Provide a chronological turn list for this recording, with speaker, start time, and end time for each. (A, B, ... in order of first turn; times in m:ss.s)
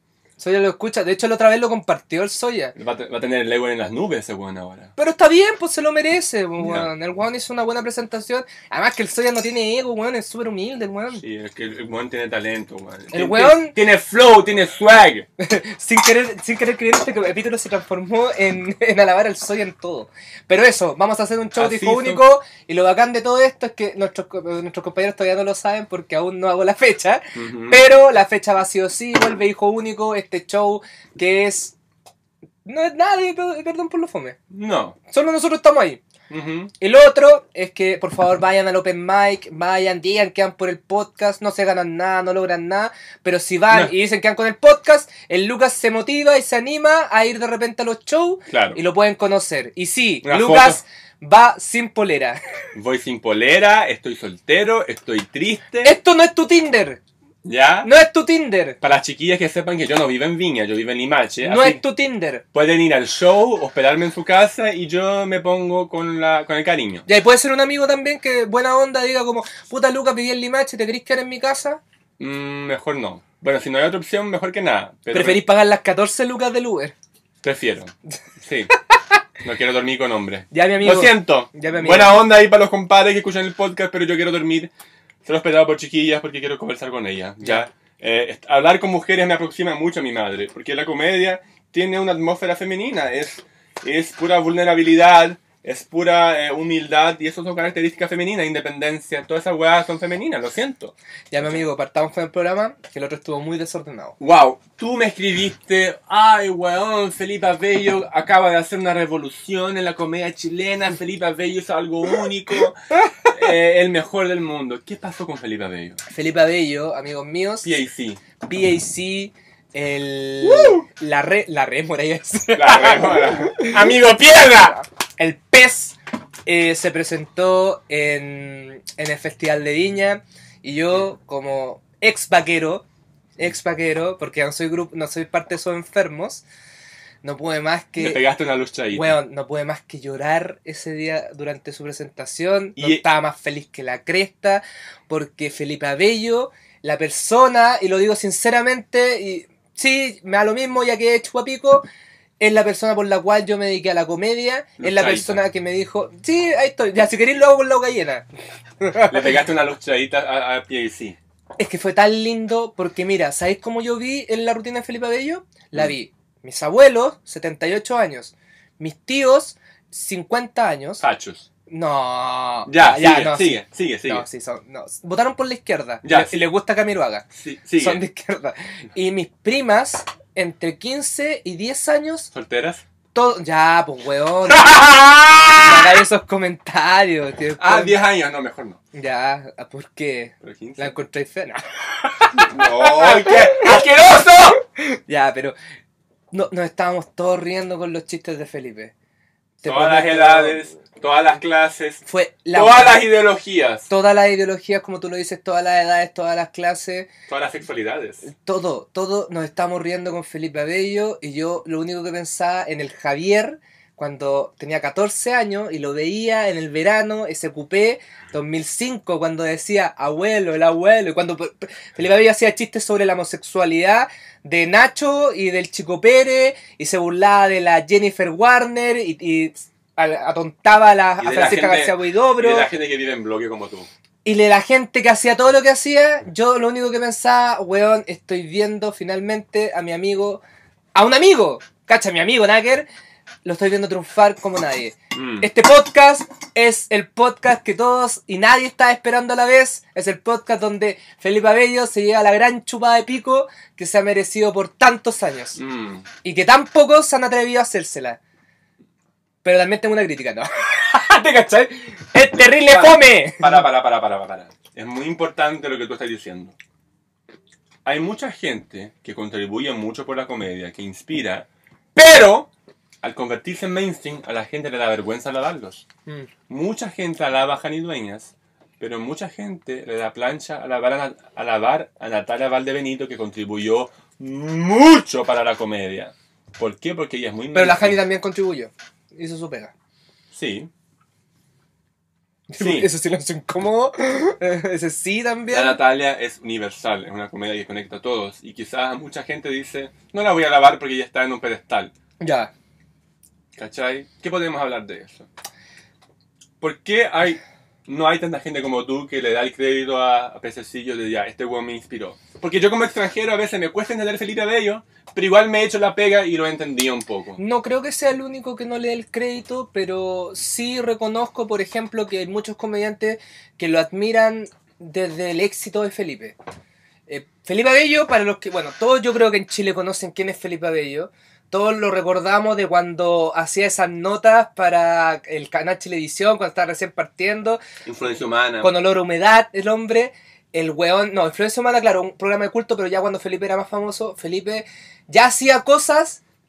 0:00.4-0:02.8 A
0:02.8-0:04.9 B
0:05.0-0:11.2 A
0:06.6-0:06.9 B
0:11.2-0:15.3 B
0:13.1-0:13.8 A
0:15.4-0:31.8 A
0:21.6-0:22.2 B
0:27.4-0:27.8 B
0:32.6-0:34.4 A
0:34.5-0:35.0 B
0:35.1-0:36.0 A
0:36.3-0:36.7 B
0:36.8-0:52.4 A
0:48.5-0:48.8 B
0:50.2-0:50.8 B
0:52.7-0:55.9 B
0:55.8-0:57.0 A
0:57.4-0:57.9 B
0:57.8-0:58.8 A
0:58.8-1:01.8 B
1:01.4-1:02.4 A
1:02.5-1:07.1 B
1:07.1-1:11.8 A
1:12.2-1:15.4 B
1:15.1-1:16.9 A
1:17.4-1:18.7 B
1:19.4-1:24.7 B
1:20.5-1:22.2 A
1:25.2-1:40.9 B
1:41.3-1:44.2 A
1:44.2-1:56.0 B
1:56.1-1:57.7 A
1:57.6-1:58.2 B
1:58.4-2:04.0 A
2:00.4-2:00.8 B
2:02.6-2:04.8 B
2:04.7-2:12.8 A
2:13.4-2:16.4 A
2:17.2-2:18.2 A
2:18.0-2:19.2 B
2:18.9-2:31.9 A
2:22.8-2:23.0 B
2:32.4-2:38.3 A
2:34.8-2:35.4 B
2:38.8-2:39.3 A
2:39.1-2:41.2 B
2:41.6-2:51.0 A
2:51.0-2:51.5 B
2:51.7-2:57.3 A
2:52.7-2:54.2 B
2:56.0-2:56.4 B
2:57.3-2:58.0 B
2:57.8-3:02.3 A
3:02.3-3:02.8 B
3:03.1-3:04.7 A
3:04.5-3:06.0 B
3:05.6-3:08.0 A
3:07.6-3:08.8 B
3:08.9-3:13.8 A
3:10.4-3:11.0 B
3:12.3-3:14.6 B
3:14.6-3:15.6 A
3:16.3-3:18.9 A
3:19.6-3:20.6 A
3:19.6-3:23.9 B
3:22.0-3:23.1 A
3:23.9-3:27.1 A
3:27.3-3:28.2 B
3:28.2-3:52.7 A
3:51.2-3:53.9 B
3:54.2-4:00.4 A
4:01.0-4:02.9 A
4:03.4-4:15.6 A
4:05.1-4:05.5 B
4:15.6-4:16.1 B
4:16.2-4:18.2 A
4:19.4-4:23.6 A
4:22.7-4:26.6 B
4:27.8-4:32.5 B
4:33.0-4:35.9 B
4:36.5-4:48.0 B
4:47.5-4:49.7 A
4:50.3-4:50.7 B
4:52.5-4:55.8 A
4:52.6-4:52.9 B
4:55.5-5:01.9 B
5:02.2-5:02.5 A
5:03.6-5:05.3 B
5:06.6-5:17.4 B
5:17.4-5:26.4 A
5:27.1-5:37.6 A
5:37.9-5:38.7 B
5:38.6-5:46.2 A